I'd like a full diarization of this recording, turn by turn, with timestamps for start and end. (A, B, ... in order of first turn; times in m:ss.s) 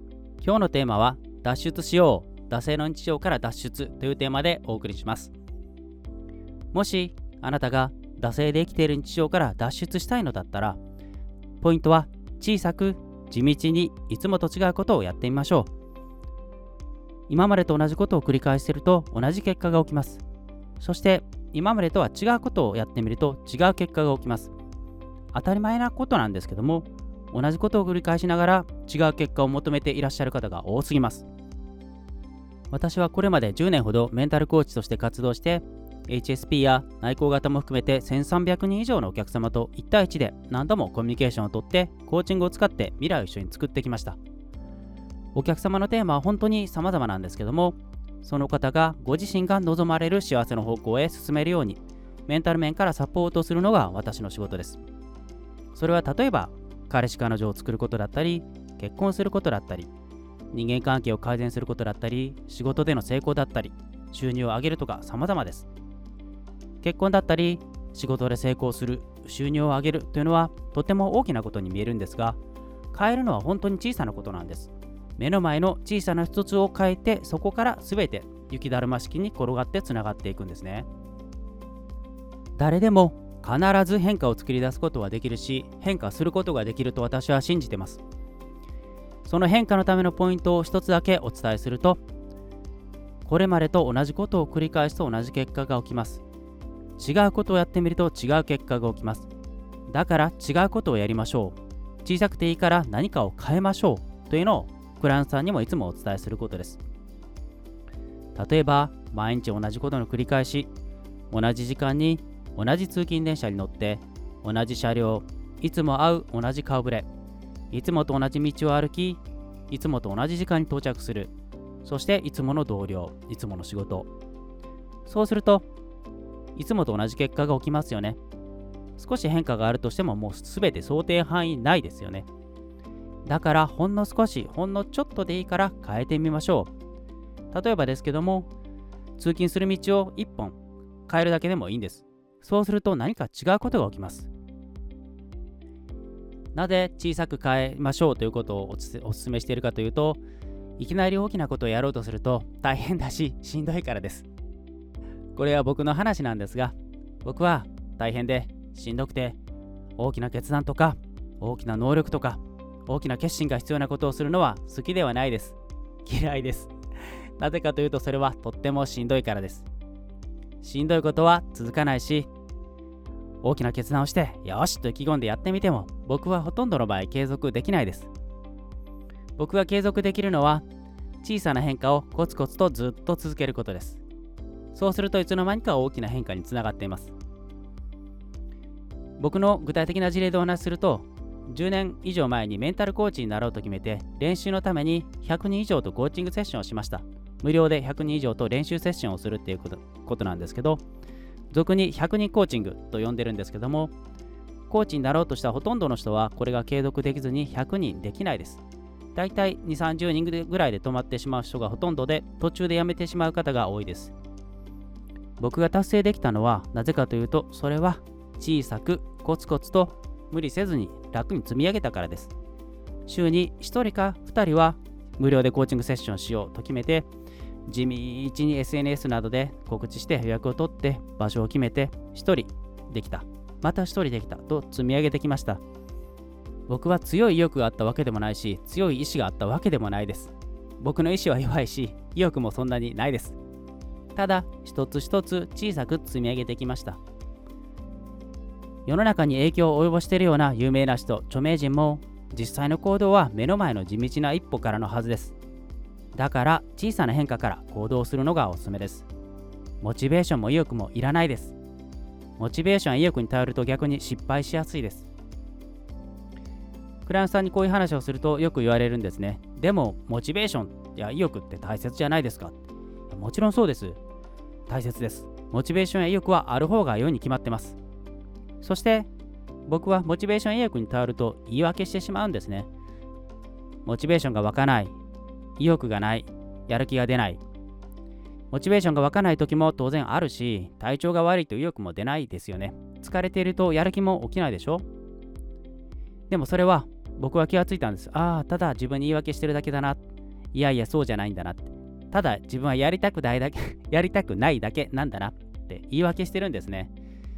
0:00.4-0:05.3 A
0:06.7-0:10.8 A
0:11.6-0:15.7 A
0:17.3-0:20.2 A
0:20.8-0:24.5 A
0:25.3-0:31.3 A
0:32.7-0:44.2 A
0:45.3-0:54.8 A
0:55.7-0:59.9 A
1:00.5-1:05.7 A
1:06.8-1:12.4 A
1:12.9-1:20.9 A
1:22.6-1:28.0 A
1:29.2-1:32.0 A
1:33.2-1:36.2 A
1:37.0-1:39.3 A
1:39.9-1:46.8 A
1:48.4-1:50.7 A
1:51.3-1:57.1 A
1:57.7-2:01.3 A
2:01.8-2:04.1 A
2:05.0-2:05.7 A
2:06.6-2:08.2 A
2:09.0-2:12.3 A
2:13.3-2:16.7 A
2:17.5-2:18.5 A
2:19.2-2:24.3 A
2:26.6-2:30.2 A
2:30.8-2:34.3 A
2:35.4-2:39.4 A
2:40.0-2:46.7 A
2:47.4-2:49.7 A
2:50.6-2:52.3 A
2:53.4-2:58.1 A
2:59.4-3:00.6 A
3:01.2-3:04.0 A
3:04.7-3:07.1 A
3:09.2-3:20.8 A
3:21.5-3:23.9 A
3:24.7-3:28.6 A
3:29.2-3:34.1 A
3:35.4-3:42.3 A
3:43.1-3:47.1 A
3:47.7-3:55.6 A
3:56.7-4:03.4 A
4:04.2-4:07.0 A
4:08.9-4:15.4 A
4:16.1-4:19.1 A
4:19.8-4:21.6 A
4:22.4-4:25.1 A
4:27.0-4:34.0 A
4:34.7-4:37.8 A
4:38.6-4:39.1 A
4:39.7-4:42.7 A
4:43.9-4:45.0 A
4:45.6-4:47.4 A
4:48.5-4:54.8 A
4:56.3-5:00.0 A
5:00.5-5:06.9 A